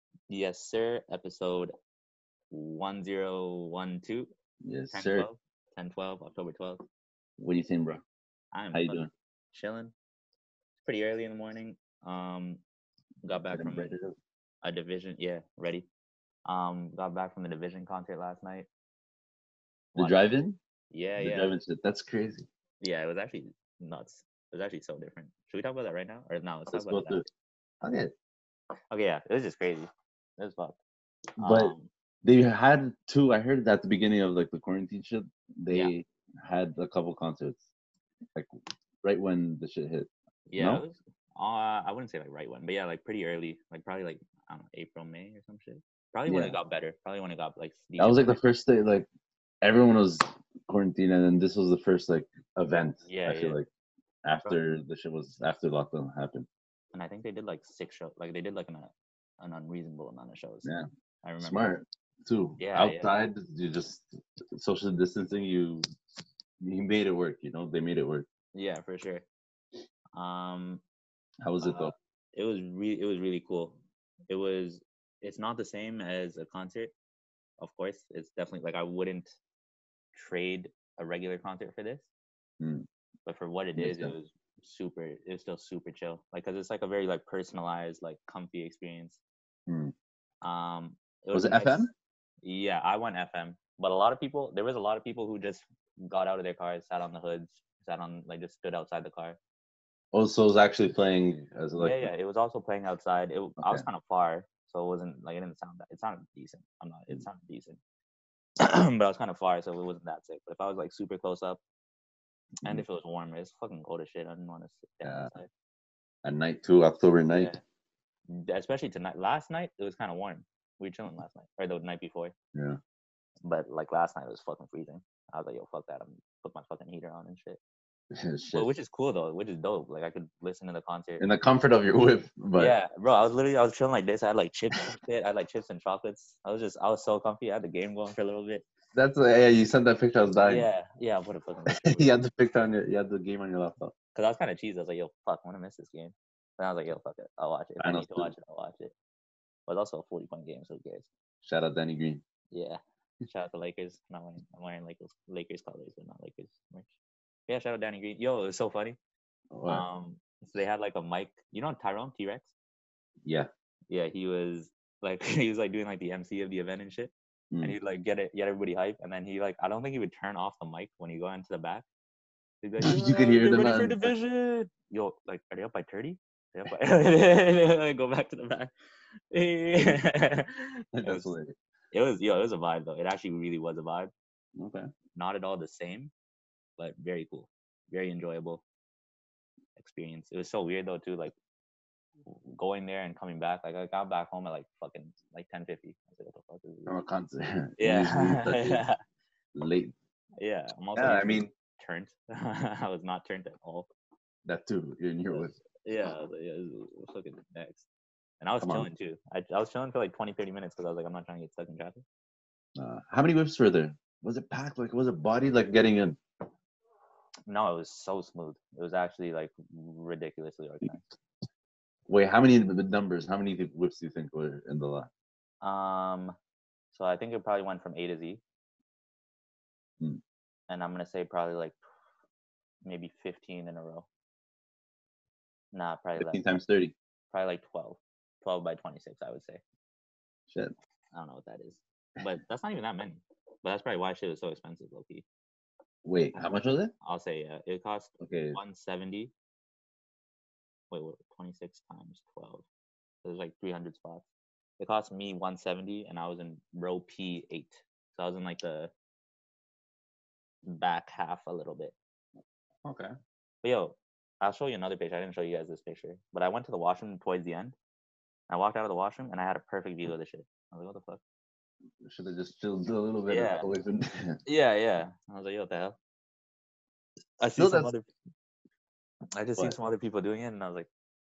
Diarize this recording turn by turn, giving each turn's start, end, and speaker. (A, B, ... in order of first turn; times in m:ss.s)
0:00.3-0:01.7 A
0:02.5-0:04.3 A
0:04.6-0:05.3 B
0:04.9-0:06.8 A
0:07.4-0:08.0 B
0:08.5-0:09.9 A
0:08.7-0:09.1 B
0:10.8-0:12.6 A
0:13.2-0:13.9 A
0:13.3-0:14.1 B
0:14.6-0:15.9 A
0:16.4-0:18.7 A
0:19.9-0:20.6 B
0:20.0-0:20.3 A
0:20.9-0:21.6 A
0:21.2-0:22.4 B
0:22.8-0:27.3 A
0:26.7-0:27.2 B
0:27.8-0:28.1 B
0:28.9-0:30.8 A
0:31.4-0:37.7 B
0:31.4-0:31.9 A
0:38.3-0:40.8 B
0:40.5-0:48.4 A
0:46.3-0:46.6 B
0:48.0-0:49.1 B
0:49.6-0:53.7 B
0:53.0-0:53.6 A
0:54.2-0:56.5 B
0:56.9-1:00.7 A
1:01.2-1:01.7 A
1:01.4-1:05.9 B
1:02.6-1:03.1 A
1:06.6-1:08.3 B
1:08.5-1:09.2 A
1:10.1-1:10.8 A
1:11.4-1:11.9 B
1:11.6-1:16.9 A
1:17.6-1:19.3 A
1:20.1-1:22.1 A
1:22.6-1:22.9 B
1:23.2-1:29.2 A
1:23.8-1:24.1 B
1:29.7-1:29.9 B
1:30.4-1:31.9 A
1:31.3-1:31.9 B
1:32.4-1:39.4 A
1:40.1-1:42.1 B
1:41.8-1:47.8 A
1:48.6-1:51.6 A
1:52.6-1:55.5 A
1:55.0-1:55.3 B
1:56.2-1:57.5 B
1:57.3-1:57.6 A
1:58.3-2:02.3 A
2:02.5-2:02.8 B
2:03.4-2:07.6 A
2:08.1-2:08.7 B
2:08.5-2:11.2 A
2:11.2-2:12.7 B
2:12.6-2:18.6 A
2:18.9-2:20.7 B
2:20.4-2:22.1 A
2:21.7-2:23.9 B
2:24.1-2:28.9 A
2:27.8-2:28.3 B
2:29.7-2:31.1 A
2:31.4-2:32.2 B
2:32.5-2:36.9 A
2:37.5-2:39.0 A
2:39.5-2:39.8 B
2:39.7-2:42.5 A
2:43.2-2:43.5 B
2:43.9-2:51.8 A
2:47.5-2:47.8 B
2:52.6-2:58.7 A
2:52.8-2:54.1 B
2:59.3-3:01.3 A
2:59.8-3:00.0 B
3:00.9-3:01.5 B
3:01.9-3:04.1 A
3:04.6-3:04.9 B
3:05.1-3:06.1 A
3:06.8-3:08.6 A
3:09.8-3:11.3 A
3:12.2-3:17.0 A
3:16.8-3:18.8 B
3:17.8-3:19.0 A
3:19.5-3:19.9 B
3:20.4-3:23.9 A
3:21.0-3:21.5 B
3:24.4-3:25.6 B
3:25.8-3:27.8 A
3:28.4-3:32.0 A
3:28.6-3:28.9 B
3:32.8-3:36.2 B
3:37.5-3:41.0 A
3:42.1-3:45.1 B
3:45.6-3:46.4 A
3:46.9-3:48.4 A
3:50.7-3:51.8 A
3:52.8-3:54.1 A
3:55.7-3:56.4 A
3:56.2-3:56.9 B
3:57.3-3:59.6 A
4:01.1-4:05.2 A
4:06.0-4:06.9 B
4:07.0-4:09.3 A
4:08.2-4:08.6 B
4:10.9-4:12.6 A
4:13.2-4:14.2 A
4:14.8-4:18.9 A
4:20.6-4:21.9 A
4:22.8-4:23.1 B
4:23.6-4:27.8 A
4:28.5-4:31.2 A
4:32.0-4:34.4 B
4:33.3-4:33.7 A
4:34.4-4:36.0 A
4:37.4-4:38.1 A
4:37.5-4:37.9 B
4:39.3-4:40.9 A